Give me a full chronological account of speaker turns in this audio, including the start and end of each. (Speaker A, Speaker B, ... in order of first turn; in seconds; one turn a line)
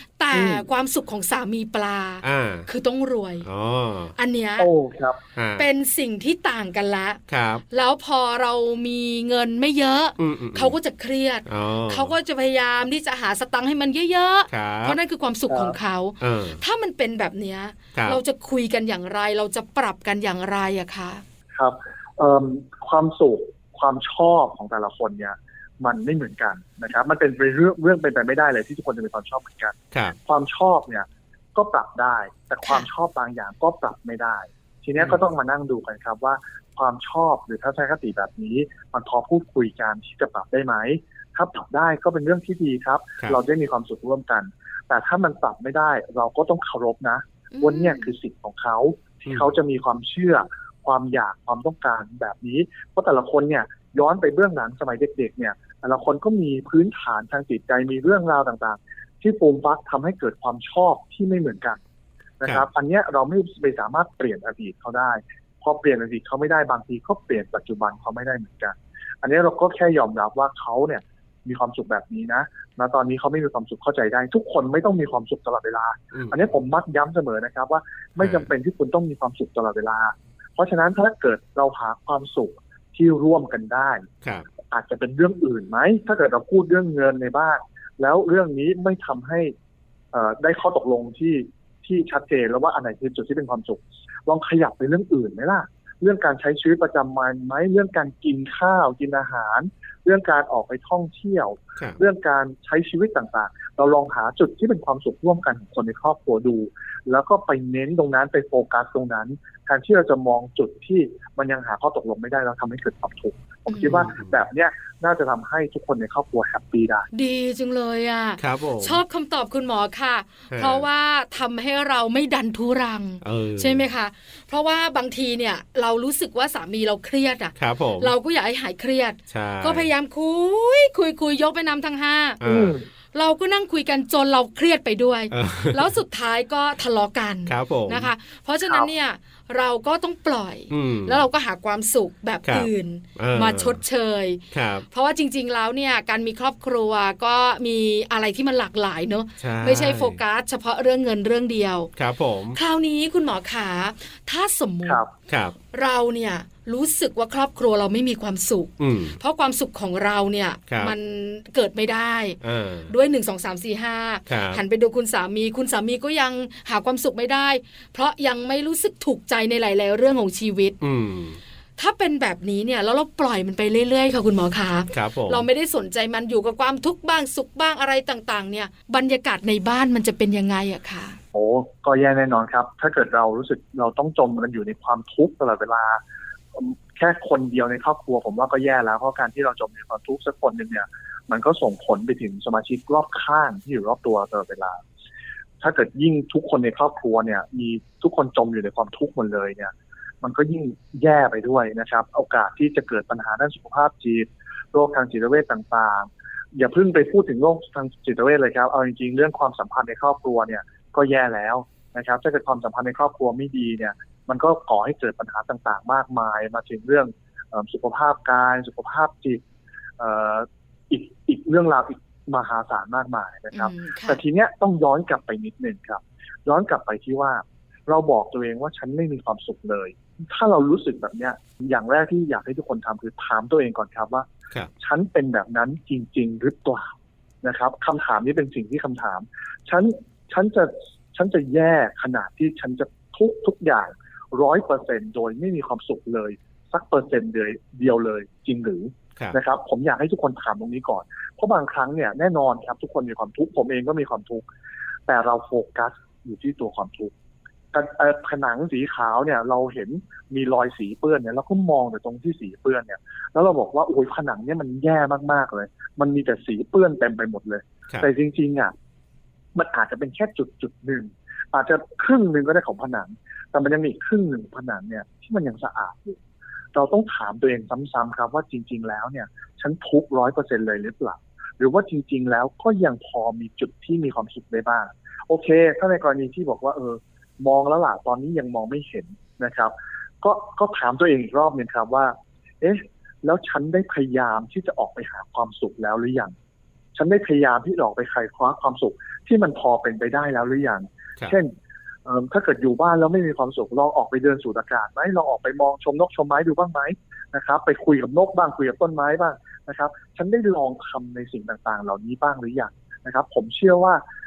Speaker A: 0.2-3.5
Speaker B: 0.3-0.7
Speaker C: 2.2-2.7
Speaker C: 3.4-4.1
Speaker A: 4.2-4.7
Speaker B: 4.6-5.2
Speaker C: 5.4-5.7
Speaker A: 5.6-7.2
Speaker C: 7.3-7.6
Speaker A: 7.7-21.2
Speaker C: 10.2-10.8
Speaker C: 11.5-12.1
Speaker C: 14.5-15.0
Speaker B: 15.5-15.8
Speaker C: 16.2-16.6
Speaker C: 17.9-18.2
Speaker B: 21.6-61.8
Speaker A: 47.5-48.1
Speaker B: 62.4-84.1
Speaker C: 76.1-76.4
Speaker C: 78.2-78.5
Speaker B: 84.7-89.5
Speaker B: 90.1-117.1
Speaker A: 113.7-114.1
Speaker C: 113.9-114.4
Speaker A: 117.1-132.4
Speaker C: 118.4-119.0
Speaker C: 120.5-120.9
Speaker C: 123.2-123.8
Speaker C: 127.6-128.1
Speaker C: 129.3-129.9
Speaker C: 132.4-132.8
Speaker B: 132.4-132.8
Speaker A: 133.1-151.9
Speaker C: 135.3-136.0
Speaker C: 137.5-138.1
Speaker C: 140.7-141.2
Speaker C: 142.5-143.8
Speaker C: 144.5-144.9
Speaker C: 149.4-150.2
Speaker C: 152.0-152.6
Speaker A: 152.5-155.0
Speaker C: 155.3-155.6
Speaker A: 155.7-170.8
Speaker C: 158.8-159.2
Speaker C: 160.7-160.9
Speaker C: 162.4-162.9
Speaker C: 164.3-164.6
Speaker C: 170.8-171.4
Speaker A: 171.8-181.2
Speaker C: 174.9-175.5
Speaker B: 181.3-186.0
Speaker B: 186.5-194.8
Speaker B: 195.6-219.4
Speaker B: 220.0-234.3
Speaker A: 223.5-224.2
Speaker B: 234.8-254.4
Speaker B: 255.1-257.1
Speaker B: 257.7-268.7
Speaker B: 269.6-276.2
Speaker B: 276.7-296.3
Speaker B: 296.9-301.5
Speaker B: 302.1-314.0